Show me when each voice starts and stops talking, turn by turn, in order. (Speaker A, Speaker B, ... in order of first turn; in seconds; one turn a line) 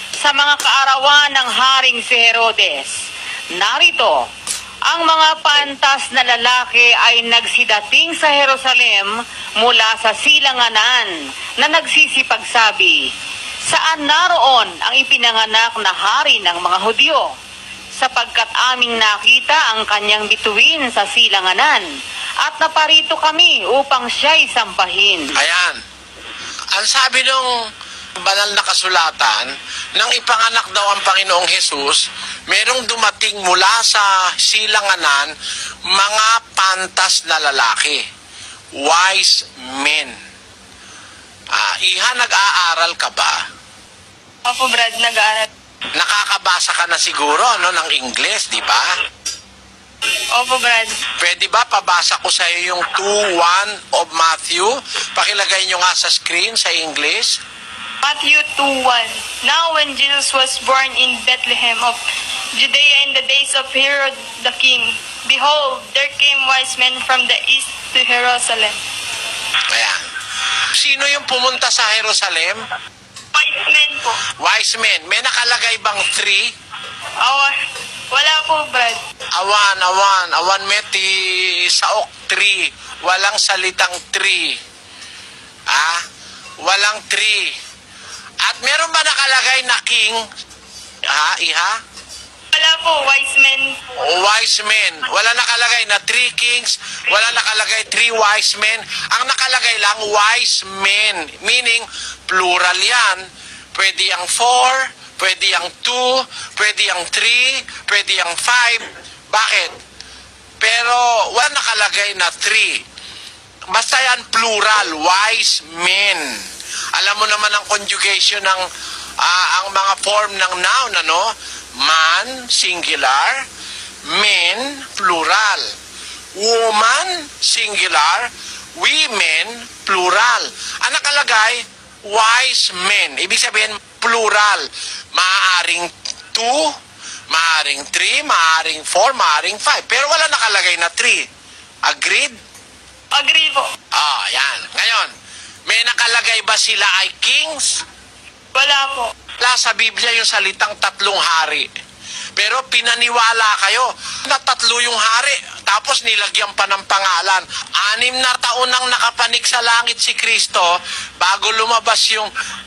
Speaker A: 0.2-3.0
Speaker A: 3.5-4.2
Speaker A: 4.9-13.0
Speaker A: 13.7-17.2
Speaker A: 18.0-21.8
Speaker A: 22.4-25.3
Speaker B: 25.4-25.8
Speaker B: 26.7-27.5
Speaker B: 28.2-35.3
Speaker B: 35.9-38.0
Speaker B: 38.8-40.1
Speaker B: 41.5-43.4
Speaker C: 44.4-45.5
Speaker B: 45.9-48.9
Speaker C: 50.3-51.0
Speaker B: 51.2-57.4
Speaker C: 58.0-62.0
Speaker C: 62.5-68.8
Speaker B: 69.7-70.0
Speaker B: 70.7-72.6
Speaker C: 73.3-74.2
Speaker B: 74.3-76.5
Speaker C: 77.2-77.5
Speaker C: 78.1-79.0
Speaker B: 79.4-84.6
Speaker B: 85.7-86.0
Speaker B: 86.6-87.5
Speaker B: 88.4-90.2
Speaker B: 91.1-91.8
Speaker C: 92.5-94.0
Speaker B: 94.0-103.2
Speaker B: 103.7-109.8
Speaker B: 110.6-112.8
Speaker B: 113.7-116.2
Speaker B: 116.9-118.6
Speaker B: 119.2-123.5
Speaker B: 124.1-125.7
Speaker B: 126.3-136.7
Speaker B: 137.3-141.2
Speaker B: 141.9-142.4
Speaker C: 143.1-143.7
Speaker B: 143.9-145.1
Speaker B: 145.7-147.8
Speaker C: 148.5-149.1
Speaker B: 149.4-151.7
Speaker B: 152.4-162.3